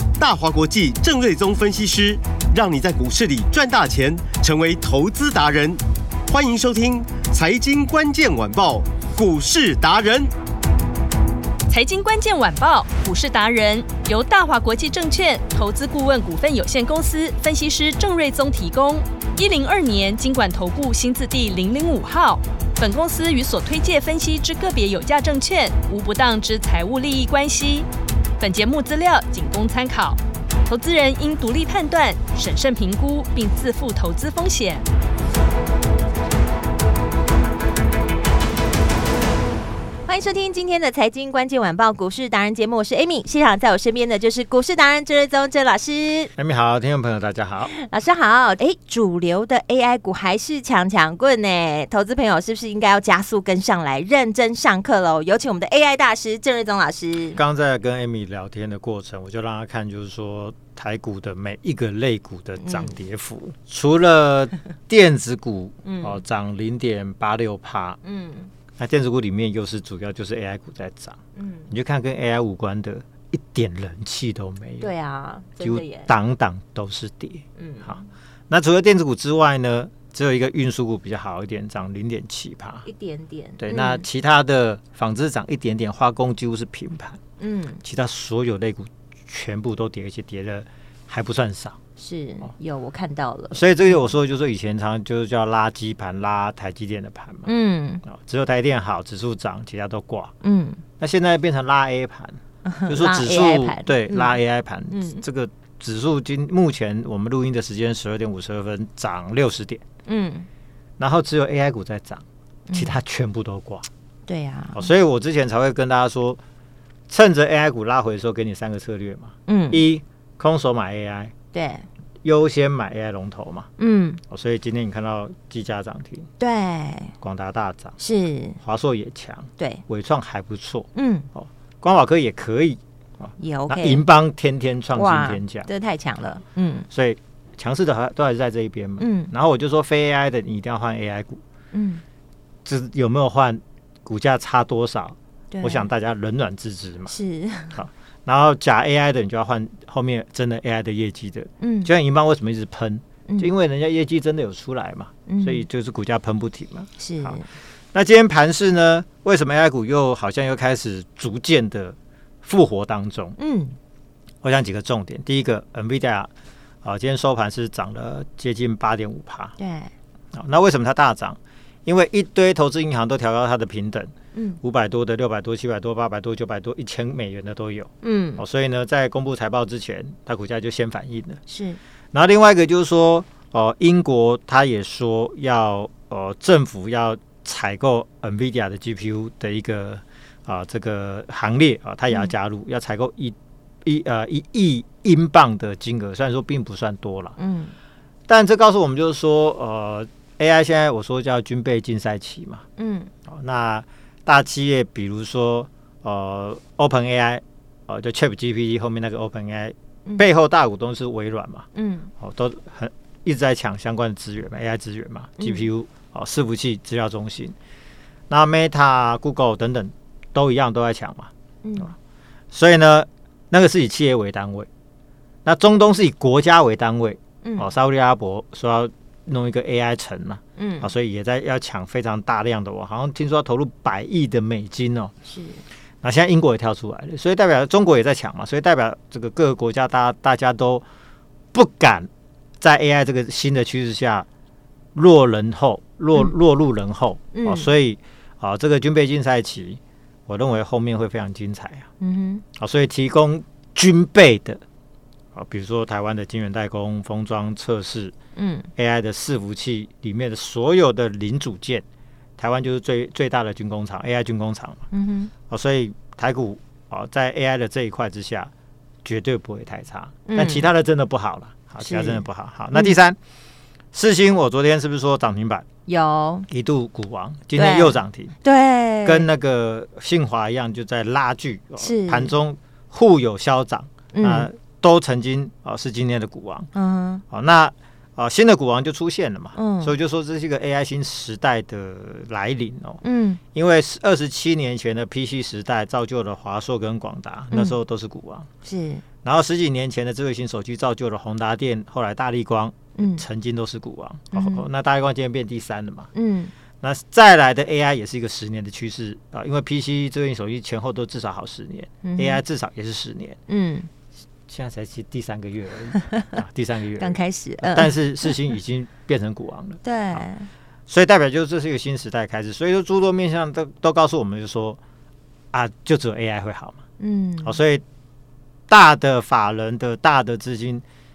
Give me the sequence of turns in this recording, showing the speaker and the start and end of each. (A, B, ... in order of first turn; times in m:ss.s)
0:00.2-0:10.3 A
0:11.7-0:27.9 B
0:28.4-0:34.8 B
0:40.1-0:46.3 C
0:46.4-0:47.7 D
0:47.7-0:57.4 C
0:57.3-1:08.0 D
1:02.6-1:03.0 C
1:05.8-1:06.2 C
1:08.0-1:08.5 C
1:08.8-1:11.2 D
1:11.4-1:11.7 C
1:11.7-1:14.9 D
1:14.8-1:16.1 C
1:15.6-1:18.0 D
1:17.6-1:18.0 C
1:18.5-1:22.9 D
1:22.8-1:24.1 C
1:23.6-1:27.2 D
1:27.4-1:27.8 C
1:27.8-1:31.8 D
1:32.0-1:34.0 C
1:33.5-1:37.5 D
1:37.5-1:38.0 C
1:38.1-1:40.3 D
1:40.4-1:40.8 C
1:41.0-1:49.8 D
1:42.6-1:44.4 C
1:44.9-1:45.2 C
1:50.1-1:50.5 C
1:51.0-1:53.9 D
1:52.7-1:53.0 C
1:54.3-1:54.9 C
1:54.7-1:56.4 D
1:57.1-2:01.3 D
1:59.5-1:59.9 C
2:01.5-2:01.9 C
2:02.2-2:03.7 D
2:03.8-2:04.2 C
2:04.3-2:06.3 D
2:06.4-2:07.1 C
2:07.2-2:08.0 D
2:08.0-2:08.6 C
2:08.6-2:15.7 D
2:09.6-2:09.8 C
2:10.9-2:11.3 C
2:13.4-2:14.0 C
2:15.0-2:16.9 C
2:16.9-2:21.4 D
2:19.0-2:19.3 C
2:21.7-2:22.0 C
2:22.6-2:27.1 D
2:25.5-2:25.9 C
2:27.1-2:27.8 C
2:27.7-2:37.4 D
2:31.6-2:31.9 C
2:35.3-2:35.6 C
2:37.0-2:37.5 C
2:37.9-2:43.4 D
2:43.4-2:43.8 C
2:44.4-2:46.3 D
2:46.8-2:49.6 D
2:49.6-2:49.9 C
2:50.3-3:01.4 D
2:54.3-2:54.6 C
2:58.0-2:58.4 C
3:01.5-3:01.8 C
3:02.1-3:17.4 D
3:17.4-3:17.7 C
3:18.3-3:22.6 D
3:22.8-3:23.1 C
3:23.3-3:31.7 D
3:31.7-3:32.1 C
3:32.2-3:37.6 D
3:35.4-3:35.7 C
3:38.3-3:41.3 D
3:41.6-3:41.9 C
3:42.5-3:44.7 D
3:45.4-3:55.1 D
3:47.4-3:47.7 C
3:50.6-3:50.9 C
3:55.3-3:55.6 C
3:56.0-4:00.8 D
4:01.5-4:02.1 D
4:02.6-4:04.3 D
4:05.0-4:11.9 D
4:07.3-4:07.7 C
4:12.0-4:12.4 C
4:12.6-4:14.6 D
4:15.4-4:18.1 D
4:18.4-4:18.7 C
4:18.8-4:21.8 D
4:22.4-4:24.8 D
4:24.9-4:25.3 C
4:25.5-4:28.5 D
4:29.0-4:33.2 D
4:30.3-4:30.7 C
4:31.8-4:33.0 C
4:33.9-4:35.7 D
4:35.9-4:36.5 C
4:36.5-4:38.4 D
4:37.6-4:39.3 C
4:39.0-4:46.7 D
4:41.8-4:42.4 C
4:44.1-4:44.5 C
4:46.8-4:47.2 C
4:47.3-4:53.0 D
4:49.6-4:50.0 C
4:53.0-4:53.4 C
4:53.5-4:58.5 D
4:57.5-4:57.8 C
4:58.6-4:59.0 C
4:59.2-5:06.1 D
5:03.0-5:03.2 C
5:04.3-5:04.7 C
5:06.1-5:06.5 C
5:06.8-5:13.4 D
5:12.0-5:12.4 C
5:13.5-5:13.9 C
5:14.5-5:20.3 D
5:17.0-5:18.0 C
5:19.8-5:20.5 C
5:20.9-5:24.8 D
5:25.5-5:26.8 D
5:27.0-5:27.6 C
5:27.4-5:27.8 D
5:28.7-5:30.8 D